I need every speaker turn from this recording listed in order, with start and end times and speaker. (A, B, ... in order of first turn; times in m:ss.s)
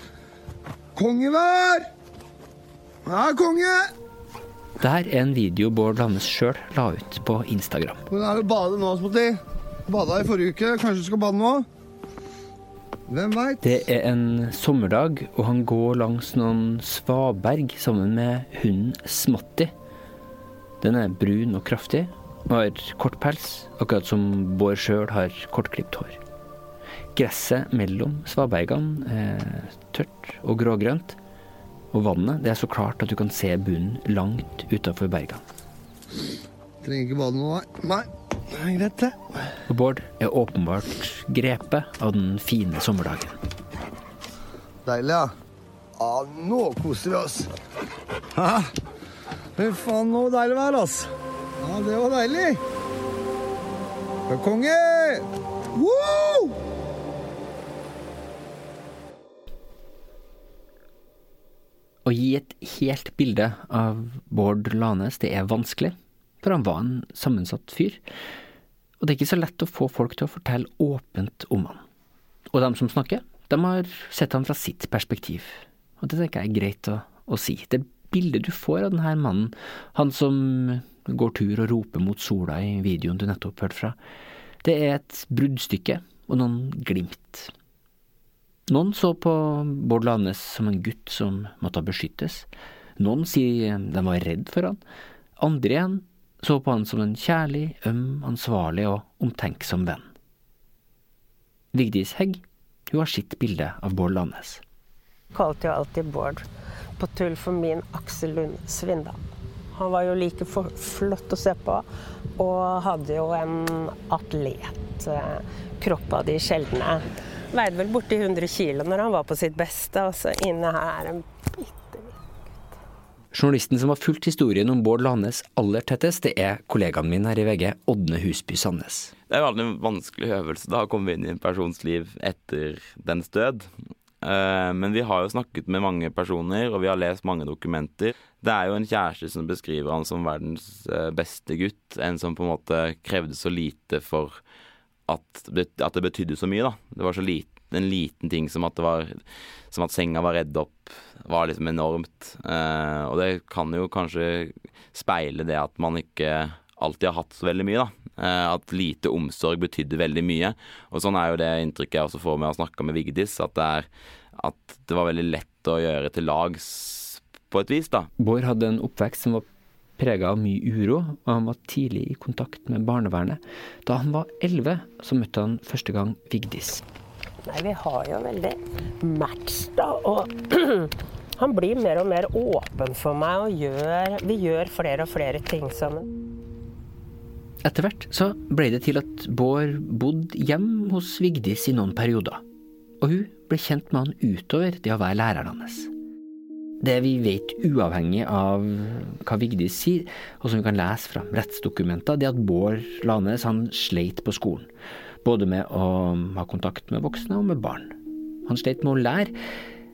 0:01.0-0:01.9 A
0:03.0-0:03.9 A
0:04.8-0:08.0 B
0:08.1-0:11.7 A
0:13.1-0:13.6 A
0:13.6-0:19.7 B
0:20.8-0:26.2 B
0:27.1-0:31.2 B
0:31.9-0:35.4 B
0:36.8-0:39.4 A
0:39.7-0:43.4 B
0:44.8-0:45.3 A
0:46.0-0:47.5 A
0:48.3-0:48.7 A
0:49.6-0:52.6 A
0:54.3-0:56.6 A
1:02.0-1:08.0 B
1:09.0-1:11.8 B
1:12.5-1:24.0 B
1:24.6-1:27.5 B
1:28.7-1:34.8 B
1:35.4-1:40.0 B
1:41.7-1:44.6 B
1:45.3-1:46.4 C
1:47.0-1:49.2 C
1:49.7-1:51.8 C
1:52.4-2:02.6 C
2:03.3-2:09.1 B
2:09.3-2:13.7 D
2:14.2-2:24.4 D
2:25.1-2:48.1 D
2:48.2-2:49.4 B
2:50.0-2:56.8 B
2:57.4-3:06.1 C
3:07.6-3:12.4 B
3:13.0-3:15.9 B
3:16.8-3:24.7 B
3:25.2-3:29.4 B